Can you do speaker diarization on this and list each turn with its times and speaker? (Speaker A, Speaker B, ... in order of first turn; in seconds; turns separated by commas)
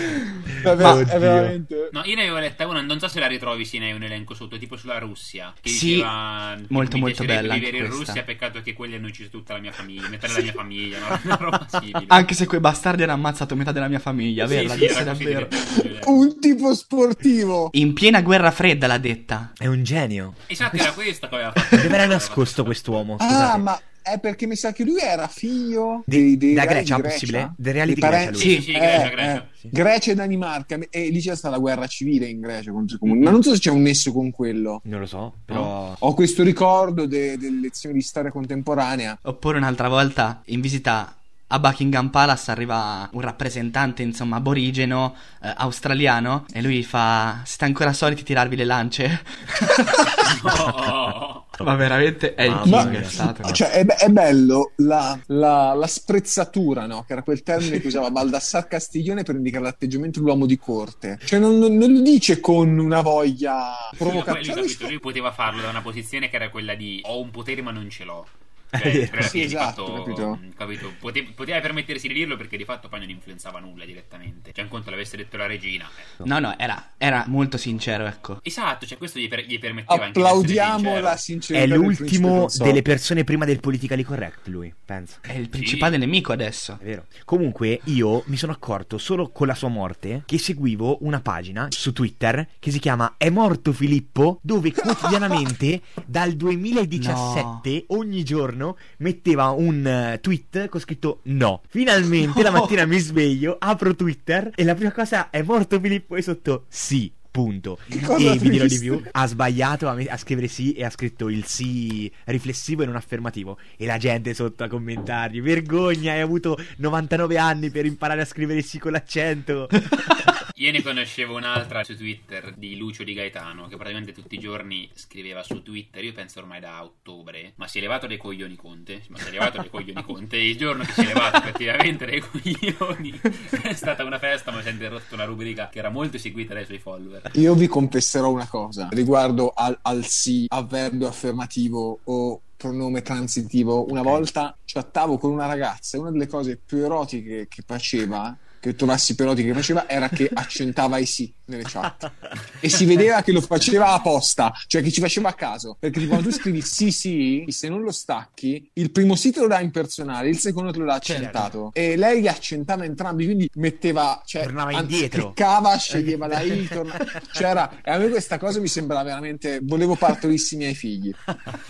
Speaker A: 0.6-1.9, Speaker B: 0.6-1.6, Speaker C: 1.9-12.3, Speaker D: 5.7-6.1, Speaker D: 6.7-8.2, Speaker D: 12.1-15.6, Speaker C: 14.4-16.3, Speaker A: 15.7-17.7, Speaker D: 17.7-19.5, Speaker B: 19.6-20.9, Speaker C: 20.5-23.0, Speaker B: 21.7-23.7, Speaker A: 23.2-34.8, Speaker B: 26.1-28.9, Speaker C: 28.3-29.5, Speaker D: 28.4-28.7, Speaker B: 34.8-36.0, Speaker A: 35.5-39.2, Speaker D: 39.2-50.3, Speaker C: 50.2-51.5, Speaker D: 51.6-53.6, Speaker B: 52.4-53.6, Speaker A: 52.6-65.0, Speaker C: 64.0-76.1, Speaker B: 68.7-69.5, Speaker A: 69.2-70.4, Speaker D: 76.2-78.4, Speaker C: 78.4-81.2, Speaker A: 79.9-82.8, Speaker B: 81.5-85.2, Speaker D: 85.3-86.8, Speaker C: 85.6-86.0, Speaker B: 86.8-119.9, Speaker D: 97.0-97.7, Speaker D: 102.3-102.7, Speaker A: 107.9-109.1, Speaker C: 120.5-137.3, Speaker A: 137.3-171.3, Speaker D: 161.0-161.5, Speaker B: 161.1-161.5, Speaker B: 164.4-165.4